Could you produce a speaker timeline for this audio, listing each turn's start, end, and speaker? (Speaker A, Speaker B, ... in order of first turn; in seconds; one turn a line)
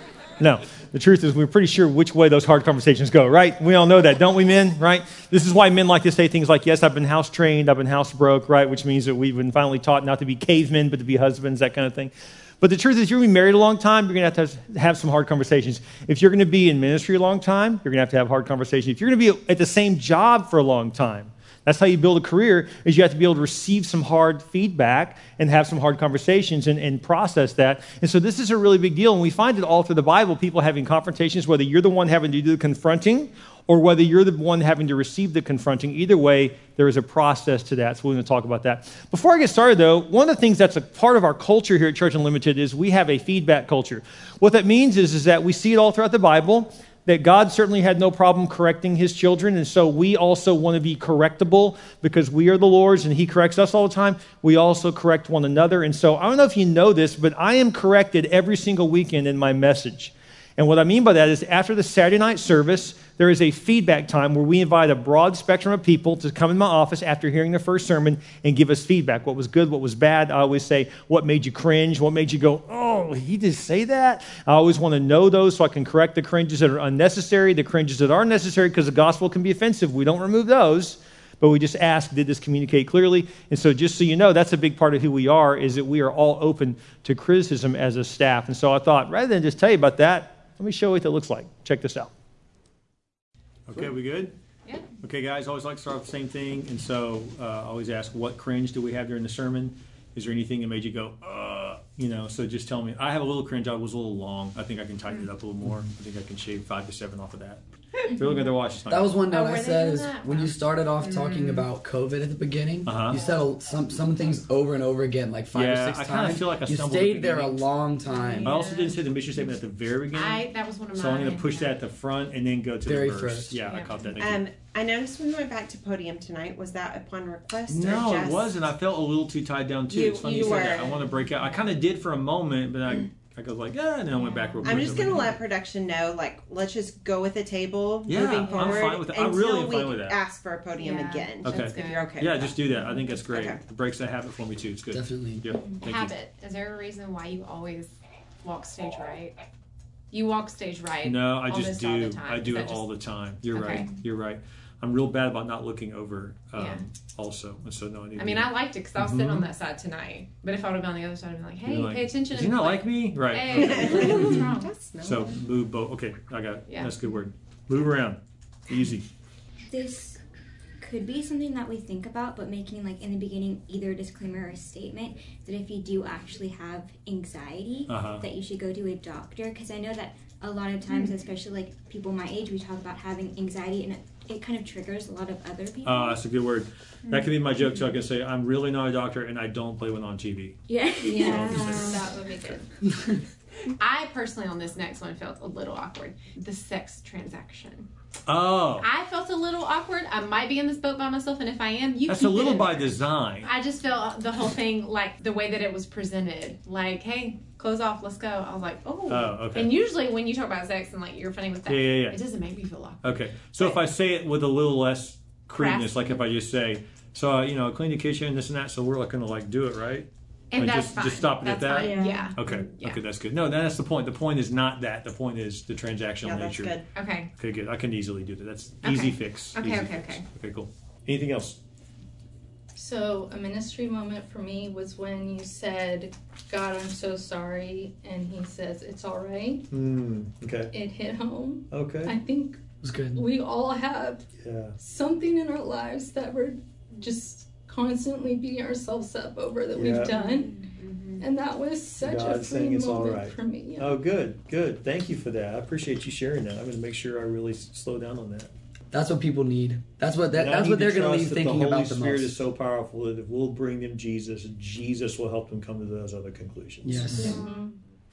Speaker A: 0.4-92.1
Speaker A: 93.7-94.3
Speaker A: 95.0-109.2
Speaker B: 108.9-118.6
Speaker C: 109.3-111.7
Speaker A: 112.8-113.2
Speaker C: 113.1-113.5
Speaker A: 115.5-117.6
Speaker C: 118.1-119.1
Speaker A: 118.4-124.4
Speaker C: 120.1-121.8
Speaker B: 122.8-123.6
Speaker D: 124.2-128.6
Speaker A: 127.7-135.4
Speaker D: 129.9-130.9
Speaker C: 130.3-130.7
Speaker C: 134.2-135.2
Speaker D: 134.6-143.6
Speaker A: 138.1-140.2
Speaker C: 138.5-139.0
Speaker C: 140.8-142.1
Speaker A: 141.4-146.1
Speaker B: 144.9-145.5
Speaker C: 145.8-147.9
Speaker C: 148.4-149.4
Speaker C: 150.1-152.9
Speaker A: 151.0-159.5
Speaker C: 153.4-153.9
Speaker C: 156.6-156.8
Speaker C: 158.2-164.8
Speaker A: 161.7-164.4
Speaker D: 163.5-165.3
Speaker A: 165.0-169.1
Speaker C: 166.7-166.9
Speaker E: 169.7-170.2
Speaker E: 170.8-186.2
Speaker A: 177.9-178.2
Speaker A: 185.8-190.6
Speaker E: 190.7-192.2
Speaker F: 191.0-192.7
Speaker A: 191.2-192.0
Speaker C: 193.8-197.9
Speaker A: 198.3-198.9
Speaker C: 198.8-213.8
Speaker A: 202.1-203.5
Speaker A: 209.1-209.7
Speaker A: 211.7-212.2
Speaker A: 213.0-226.8
Speaker C: 215.6-216.2
Speaker C: 220.5-223.0
Speaker E: 221.7-222.4
Speaker D: 226.2-226.9
Speaker C: 226.9-227.3
Speaker A: 227.3-231.6
Speaker C: 228.8-230.2
Speaker F: 232.8-239.7
Speaker A: 239.7-240.7
Speaker F: 240.7-242.6
Speaker A: 241.7-242.2
Speaker B: 242.8-243.3
Speaker F: 243.1-244.3
Speaker A: 244.4-244.8
Speaker F: 244.8-250.6
Speaker A: 249.7-250.1
Speaker E: 250.1-250.6
Speaker F: 251.2-254.0
Speaker A: 252.0-258.5
Speaker B: 258.9-262.3
Speaker A: 260.3-267.3
Speaker B: 266.9-267.4
Speaker F: 267.2-267.7